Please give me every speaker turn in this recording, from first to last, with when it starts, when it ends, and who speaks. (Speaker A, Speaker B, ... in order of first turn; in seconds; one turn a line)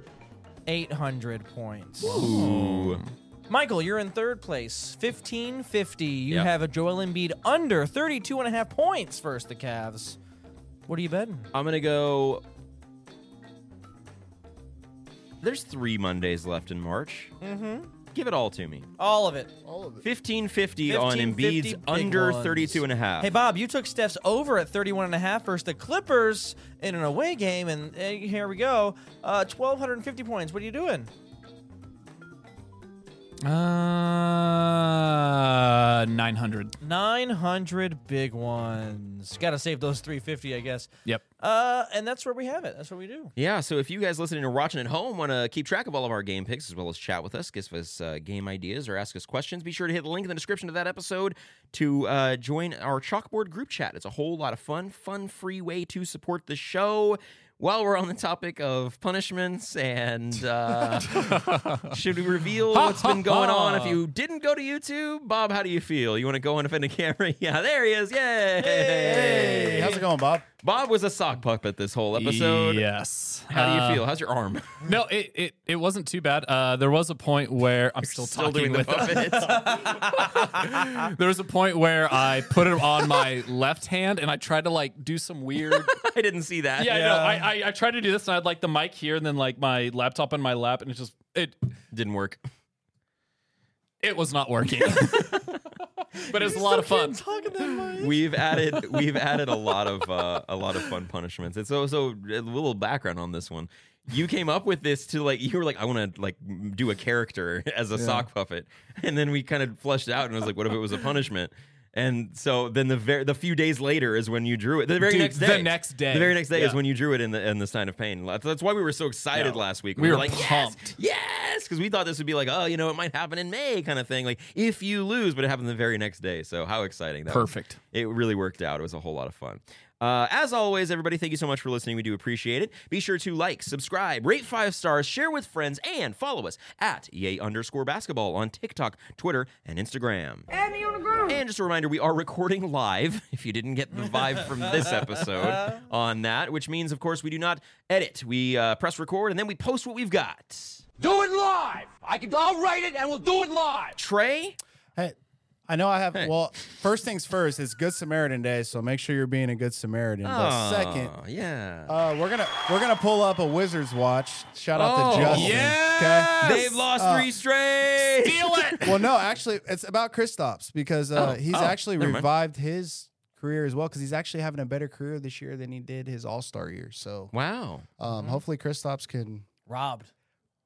Speaker A: 0.7-2.2
Speaker B: 2.0-3.0
Speaker C: 2.0-3.1
Speaker A: 3.5-10.2
Speaker A: 10.9-11.5
Speaker B: 11.5-12.4
Speaker B: 15.4-17.3
Speaker A: 17.4-17.9
Speaker B: 18.1-18.9
Speaker A: 19.0-19.5
Speaker D: 19.6-20.1
Speaker B: 20.0-23.3
Speaker A: 20.9-31.1
Speaker C: 33.4-36.8
Speaker A: 36.8-40.9
Speaker A: 41.4-43.3
Speaker B: 43.4-70.0
Speaker C: 61.0-61.9
Speaker C: 62.7-64.0
Speaker A: 68.6-70.0
Speaker D: 69.0-70.5
Speaker B: 70.6-72.8
Speaker C: 72.1-74.1
Speaker B: 73.5-74.9
Speaker C: 74.8-86.0
Speaker B: 78.0-79.8
Speaker A: 79.2-80.5
Speaker B: 85.7-87.5
Speaker C: 86.8-91.6
Speaker B: 91.9-92.4
Speaker C: 94.0-95.6
Speaker C: 96.2-97.4
Speaker A: 96.2-98.2
Speaker B: 98.0-140.5
Speaker C: 98.6-98.8
Speaker C: 108.0-108.2
Speaker C: 115.0-116.8
Speaker C: 119.3-121.0
Speaker C: 127.3-127.8
Speaker B: 141.2-150.8
Speaker E: 151.0-154.0
Speaker B: 154.0-154.6
Speaker D: 155.7-161.1
Speaker B: 160.2-162.0
Speaker D: 161.9-167.3
Speaker B: 164.7-165.8
Speaker C: 165.1-166.8
Speaker B: 166.4-168.8
Speaker C: 168.2-169.0
Speaker D: 168.8-177.3
Speaker B: 171.2-172.3
Speaker C: 171.2-171.8
Speaker B: 177.3-177.9
Speaker D: 178.0-179.5
Speaker A: 178.1-178.4
Speaker A: 179.7-180.1